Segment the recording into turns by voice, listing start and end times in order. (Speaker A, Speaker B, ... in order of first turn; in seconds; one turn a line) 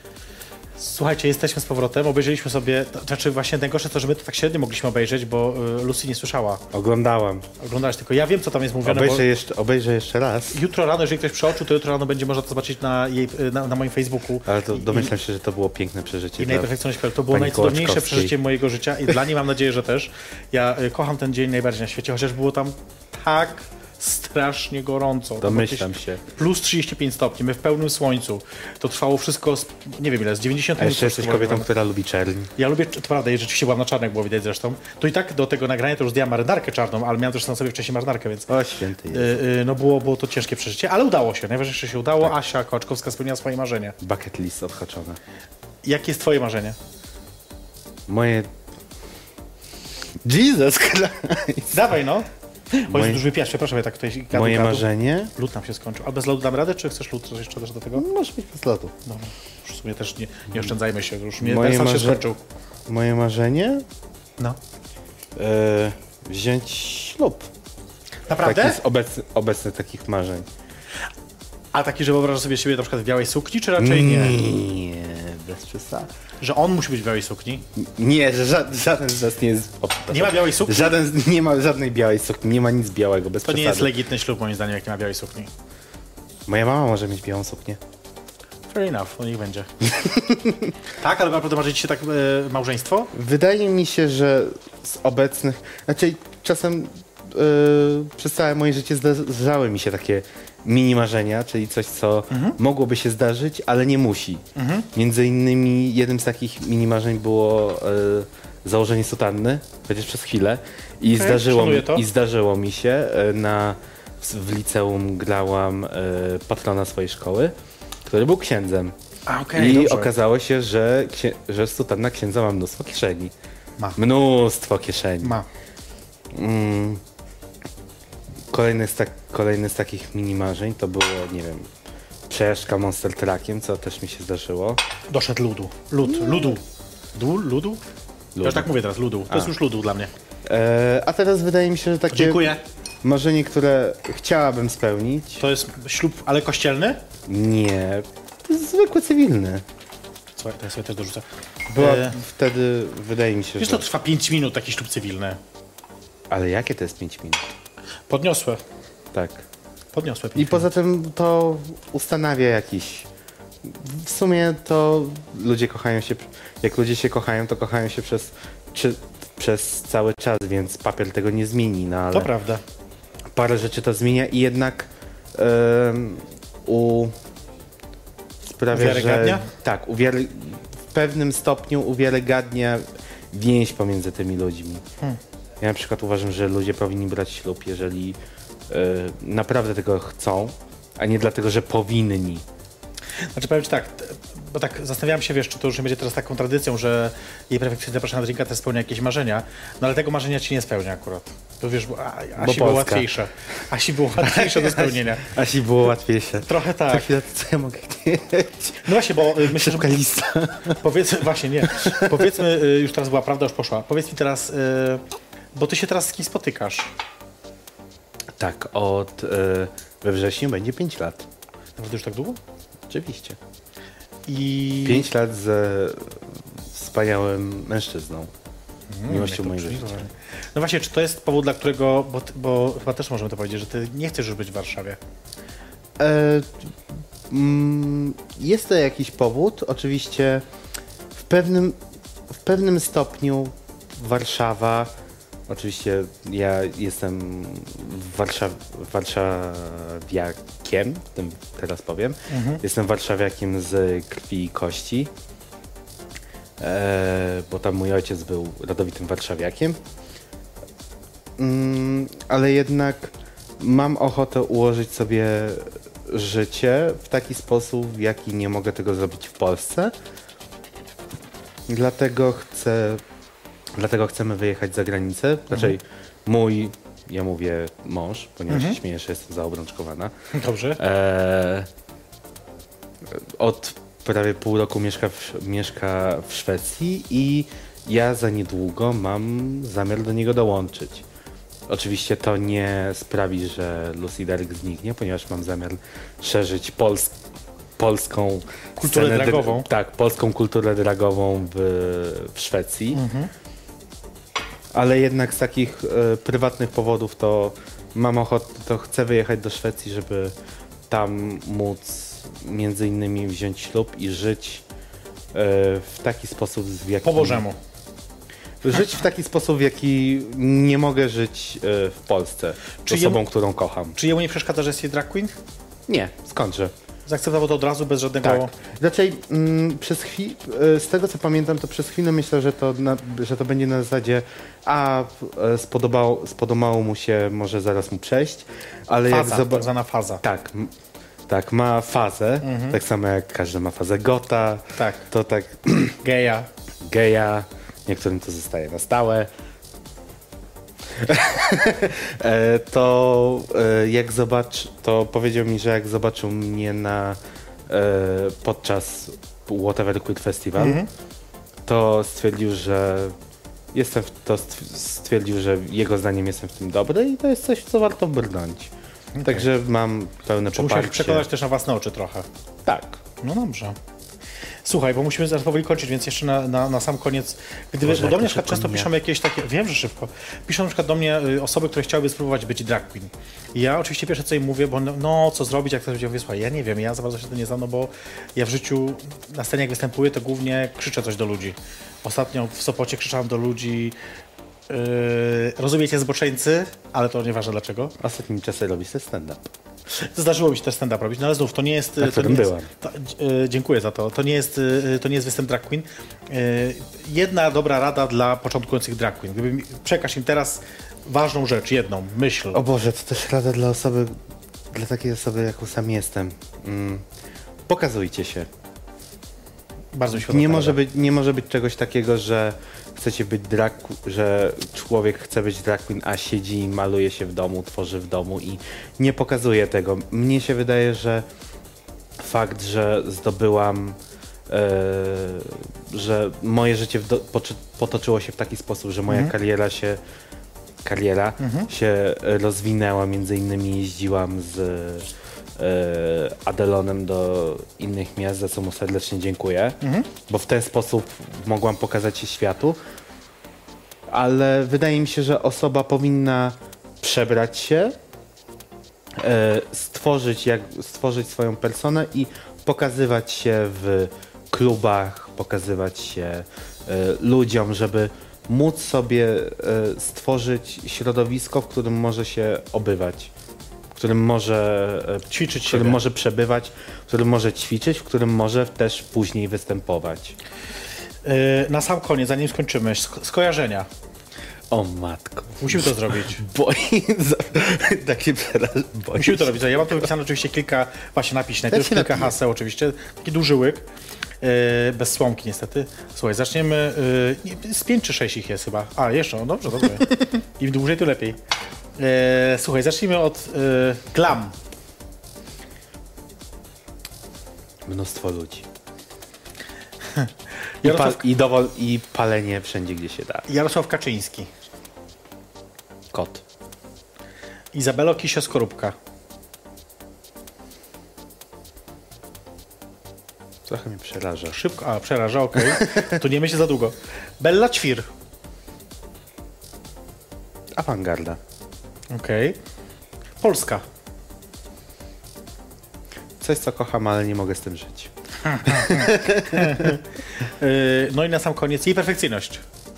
Speaker A: 0.8-6.6
Speaker B: 6.7-7.5
Speaker A: 7.6-9.3
Speaker B: 8.8-10.6
Speaker A: 10.5-15.1
Speaker B: 14.4-16.7
Speaker A: 16.4-31.7
Speaker B: 17.3-18.3
Speaker B: 25.4-26.2
Speaker B: 30.8-32.5
Speaker A: 32.6-38.5
Speaker B: 38.5-39.4
Speaker A: 39.1-44.0
Speaker B: 44.0-45.2
Speaker A: 45.8-46.8
Speaker B: 48.1-48.5
Speaker B: 50.2-51.9
Speaker A: 51.7-58.1
Speaker B: 52.9-53.2
Speaker B: 54.3-55.3
Speaker B: 57.9-58.9
Speaker A: 59.0-62.4
Speaker B: 61.4-62.2
Speaker B: 62.9-63.9
Speaker B: 65.4-67.5
Speaker A: 68.3-68.8
Speaker B: 68.4-70.5
Speaker A: 71.7-74.4
Speaker B: 73.8-76.1
Speaker A: 76.4-77.6
Speaker B: 77.8-83.9
Speaker A: 80.1-80.9
Speaker A: 83.4-85.5
Speaker B: 86.5-87.8
Speaker A: 88.7-89.7
Speaker B: 89.8-90.7
Speaker A: 91.0-93.1
Speaker B: 93.1-119.0
Speaker A: 102.3-102.6
Speaker A: 104.5-104.9
Speaker A: 111.0-112.0
Speaker A: 119.3-120.1
Speaker B: 119.5-123.3
Speaker B: 124.0-125.4
Speaker B: 126.3-127.0
Speaker B: 128.5-131.7
Speaker B: 132.3-134.8
Speaker A: 135.1-136.6
Speaker B: 136.0-136.6
Speaker A: 137.1-137.8
Speaker B: 138.4-138.7
Speaker A: 138.4-140.1
Speaker B: 140.4-145.4
Speaker A: 142.1-142.6
Speaker A: 145.4-147.0
Speaker B: 147.3-149.6
Speaker A: 150.4-152.2
Speaker B: 151.7-153.8
Speaker A: 153.6-155.4
Speaker B: 156.3-157.5
Speaker A: 158.1-158.6
Speaker B: 159.1-159.4
Speaker A: 159.9-160.7
Speaker B: 160.3-163.1
Speaker B: 163.6-172.3
Speaker A: 172.1-172.6
Speaker B: 173.3-177.1
Speaker B: 178.5-184.8
Speaker A: 178.7-179.5
Speaker B: 185.6-188.2
Speaker B: 188.7-192.4
Speaker A: 193.3-205.3
Speaker B: 202.4-203.1
Speaker B: 204.2-210.8
Speaker A: 206.4-207.1
Speaker A: 208.8-210.0
Speaker A: 210.8-215.0
Speaker B: 211.7-212.3
Speaker A: 215.6-216.9
Speaker B: 218.4-221.3
Speaker A: 221.8-222.4
Speaker B: 222.9-223.4
Speaker A: 224.3-225.1
Speaker B: 224.8-228.3
Speaker A: 228.9-235.0
Speaker B: 229.1-230.1
Speaker B: 236.0-236.7
Speaker B: 237.3-240.4
Speaker B: 241.2-241.8
Speaker B: 242.3-244.9
Speaker B: 245.5-255.1
Speaker A: 252.3-252.6
Speaker B: 256.6-259.8
Speaker B: 261.4-269.9
Speaker B: 271.7-273.0
Speaker B: 273.7-280.1
Speaker A: 278.5-278.8
Speaker A: 280.3-280.8
Speaker B: 280.8-281.7
Speaker B: 283.1-291.1
Speaker B: 291.7-297.1
Speaker B: 297.8-303.0
Speaker A: 298.8-299.7
Speaker A: 302.9-303.3
Speaker B: 304.7-310.3
Speaker B: 310.9-314.6
Speaker B: 315.3-317.4
Speaker A: 317.0-317.6
Speaker B: 318.6-324.0
Speaker A: 322.8-323.2
Speaker A: 323.9-325.4
Speaker B: 325.9-326.7
Speaker A: 327.1-328.5
Speaker B: 328.2-339.7
Speaker A: 339.1-340.2
Speaker B: 340.2-340.7
Speaker B: 341.3-346.0
Speaker A: 342.4-342.8
Speaker A: 344.8-345.1
Speaker A: 346.0-346.5
Speaker B: 346.8-349.3
Speaker B: 350.9-360.8
Speaker A: 360.6-360.9
Speaker B: 361.6-363.1
Speaker B: 363.7-368.7
Speaker A: 369.1-369.5
Speaker B: 369.2-371.3
Speaker A: 370.5-372.3
Speaker B: 372.6-373.0
Speaker A: 373.2-373.8
Speaker A: 374.6-394.0
Speaker B: 377.8-378.9
Speaker A: 394.7-397.9
Speaker B: 398.0-399.5
Speaker A: 399.9-412.6
Speaker B: 402.0-402.7
Speaker B: 412.5-414.2
Speaker B: 414.7-417.1
Speaker B: 417.7-418.5
Speaker A: 419.9-420.8
Speaker B: 420.1-431.2
Speaker B: 432.2-434.0
Speaker B: 434.5-440.0
Speaker A: 439.1-439.3
Speaker B: 440.8-452.8
Speaker A: 441.4-441.7
Speaker A: 449.8-450.1
Speaker B: 454.1-457.9
Speaker B: 459.1-473.3
Speaker B: 473.9-480.4
Speaker A: 475.3-476.0
Speaker A: 481.2-483.9
Speaker B: 484.7-490.1
Speaker A: 485.6-486.4
Speaker A: 489.1-493.9
Speaker B: 491.7-492.4
Speaker A: 494.4-501.4
Speaker A: 502.0-504.6
Speaker B: 507.9-508.6
Speaker A: 510.1-511.2
Speaker B: 510.8-513.5
Speaker A: 513.5-514.5
Speaker B: 516.1-516.4
Speaker A: 517.7-519.0
Speaker B: 523.7-524.6
Speaker A: 524.5-528.1
Speaker B: 525.6-526.1
Speaker B: 530.8-531.4
Speaker A: 532.1-532.6
Speaker A: 533.4-533.8
Speaker B: 536.4-538.1
Speaker A: 538.5-542.6
Speaker B: 538.6-540.0